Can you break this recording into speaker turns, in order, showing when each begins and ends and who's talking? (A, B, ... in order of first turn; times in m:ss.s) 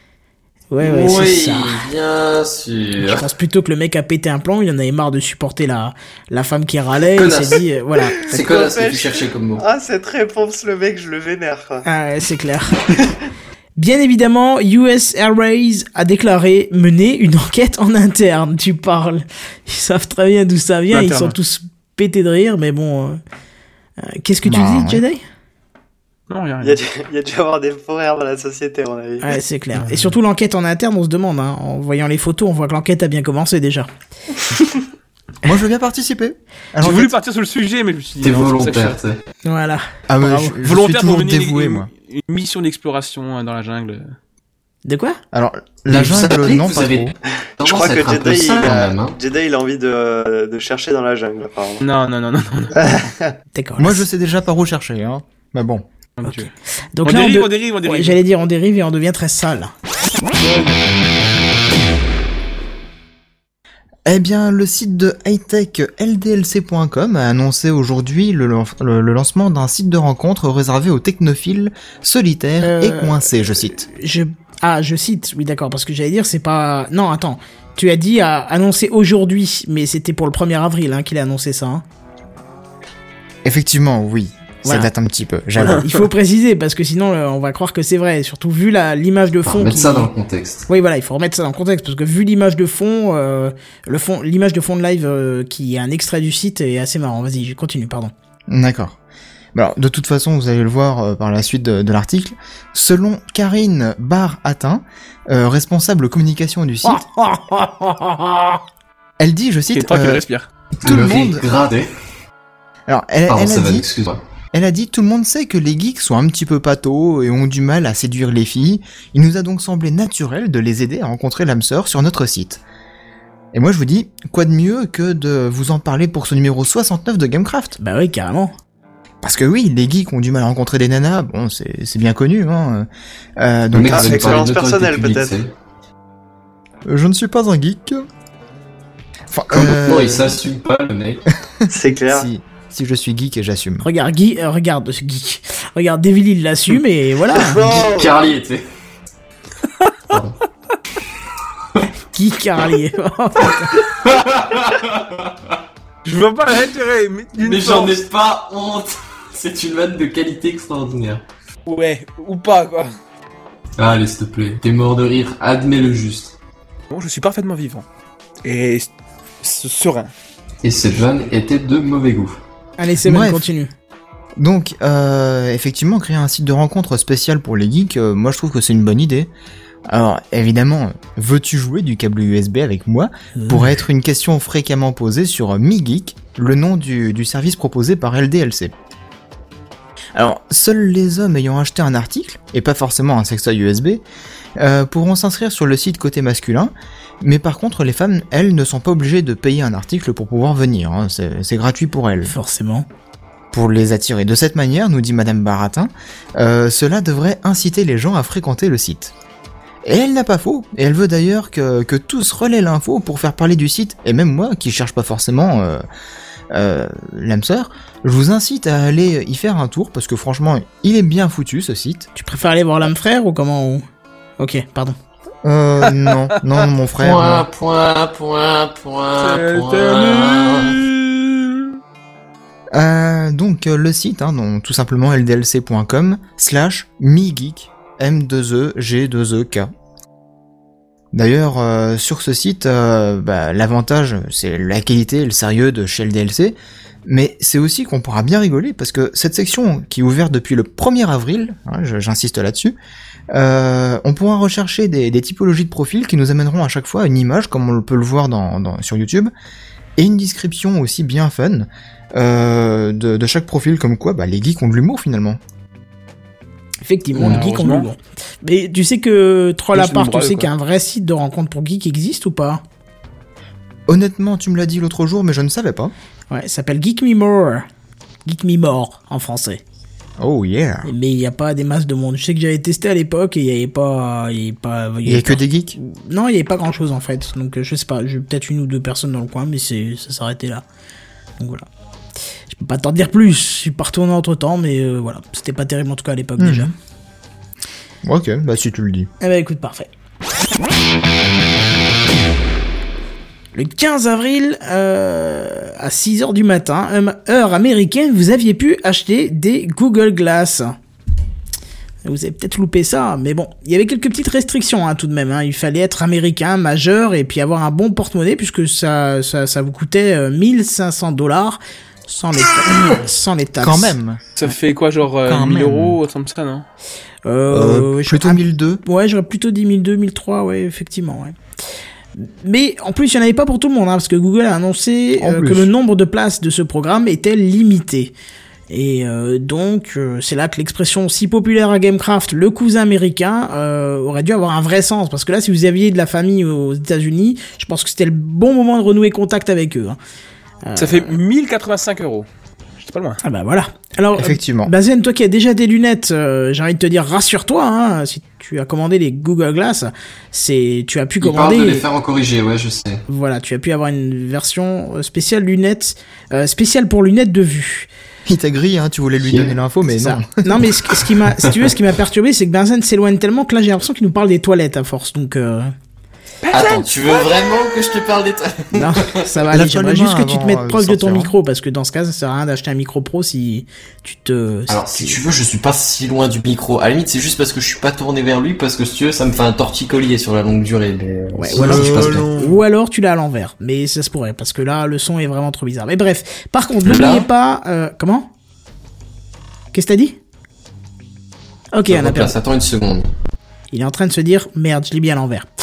0:00.7-0:01.8 A
0:00.8-0:03.2 B
0:03.0-0:08.3 A
0:07.1-0:07.6 B
0:08.2-0:09.6 B
0:08.3-0:11.8 C
0:11.8-0:12.8 A
0:13.8-0:23.2 A
0:20.9-0:21.4 D
0:24.0-0:25.2 A
0:24.4-0:25.0 E
0:26.3-0:26.8 D
0:26.6-0:29.4 C
0:29.2-0:33.9 A
0:29.7-0:30.1 D
0:35.4-0:37.1 E
0:36.8-0:39.0 D
0:38.2-0:39.2 B
0:39.4-0:40.6 A
0:40.1-0:41.9 E
0:40.6-0:44.1 D
0:44.8-0:45.2 A
0:45.3-0:47.1 E
0:45.9-0:49.2 B
0:47.6-0:51.8 C
0:51.8-0:52.9 D
0:52.8-0:53.3 C
0:53.5-0:54.0 A
0:53.8-0:55.8 E
0:56.2-0:56.5 D
0:56.2-0:59.7 A
0:57.0-0:58.2 D
1:00.4-1:00.8 D
1:04.0-1:13.8 E
1:12.6-1:21.8 A
1:23.4-1:25.9 E
1:24.6-1:24.9 A
1:25.6-1:30.1 A
1:29.4-1:30.6 B
1:30.7-1:38.1 A
1:38.5-1:39.0 E
1:39.5-1:47.0 E
1:46.9-1:48.5 A
1:49.2-1:50.2 E
1:49.7-1:50.5 D
1:50.8-1:51.4 E
1:50.8-1:51.9 B
1:52.9-1:53.9 E
1:53.3-1:54.2 B
1:54.5-2:02.6 E
2:03.5-2:07.8 E
2:07.8-2:08.5 A
2:09.2-2:14.5 E
2:13.7-2:15.5 B
2:13.8-2:15.4 C
2:16.8-2:18.0 E
2:19.3-2:20.4 E
2:19.5-2:21.2 B
2:21.6-2:23.8 E
2:21.7-2:22.3 C
2:23.8-2:27.6 A
2:27.4-2:28.6 B
2:27.7-2:28.1 C
2:30.1-2:30.4 B
2:32.1-2:33.8 A
2:33.8-2:35.6 B
2:36.0-2:38.0 D
2:37.4-2:41.2 B
2:41.6-2:42.9 D
2:43.8-2:46.3 B
2:46.9-2:47.8 D
2:48.4-2:48.9 D
2:49.4-2:50.1 D
2:50.6-2:52.4 B
2:52.8-2:53.7 A
2:53.0-2:53.4 E
2:54.4-2:59.3 E
2:59.9-3:08.7 E
3:03.4-3:03.8 A
3:10.1-3:14.0 E
3:14.6-3:22.3 E
3:22.2-3:22.9 A
3:23.5-3:29.1 E
3:29.8-3:35.8 E
3:36.5-3:42.1 E
3:42.2-3:43.8 A
3:44.4-3:45.0 A
3:45.4-3:47.5 E
3:47.0-3:50.8 B
3:49.2-3:51.5 D
3:52.7-3:59.7 E
4:01.1-4:12.8 E
4:13.3-4:19.3 E
4:20.0-4:25.4 E
4:26.8-4:32.6 A
4:27.2-4:27.9 D
4:29.7-4:30.5 D
4:33.9-4:35.9 E
4:36.3-4:37.6 A
4:38.2-4:39.6 A
4:40.2-4:40.9 E
4:40.8-4:50.6 A
4:45.0-4:45.8 E
4:51.4-4:51.7 A
4:52.5-4:56.7 A
4:56.4-4:56.7 E
4:58.0-4:59.1 E
4:59.2-4:59.9 A
5:03.5-5:10.7 A
5:12.0-5:24.0 A
5:23.6-5:24.2 E
5:24.4-5:26.6 D
5:25.2-5:26.0 E
5:27.2-5:31.4 A
5:27.5-5:28.8 E
5:32.2-5:38.1 A
5:35.2-5:35.7 E
5:38.7-5:50.0 A
5:50.6-5:51.2 A
5:50.8-5:52.3 D
5:52.8-5:53.2 D
5:53.2-6:01.8 A
5:54.1-5:54.7 E
6:01.2-6:03.0 B
6:03.1-6:07.9 A
6:08.2-6:10.6 E
6:09.2-6:09.5 B
6:09.9-6:15.7 A
6:16.4-6:16.9 D
6:16.5-6:19.3 B
6:18.7-6:25.2 A
6:19.5-6:21.3 E
6:24.7-6:32.3 B
6:31.4-6:38.3 A
6:31.6-6:32.6 D
6:36.8-6:37.3 B
6:39.7-6:40.2 A
6:41.7-6:42.4 A
6:41.9-6:43.1 B
6:43.7-6:45.5 A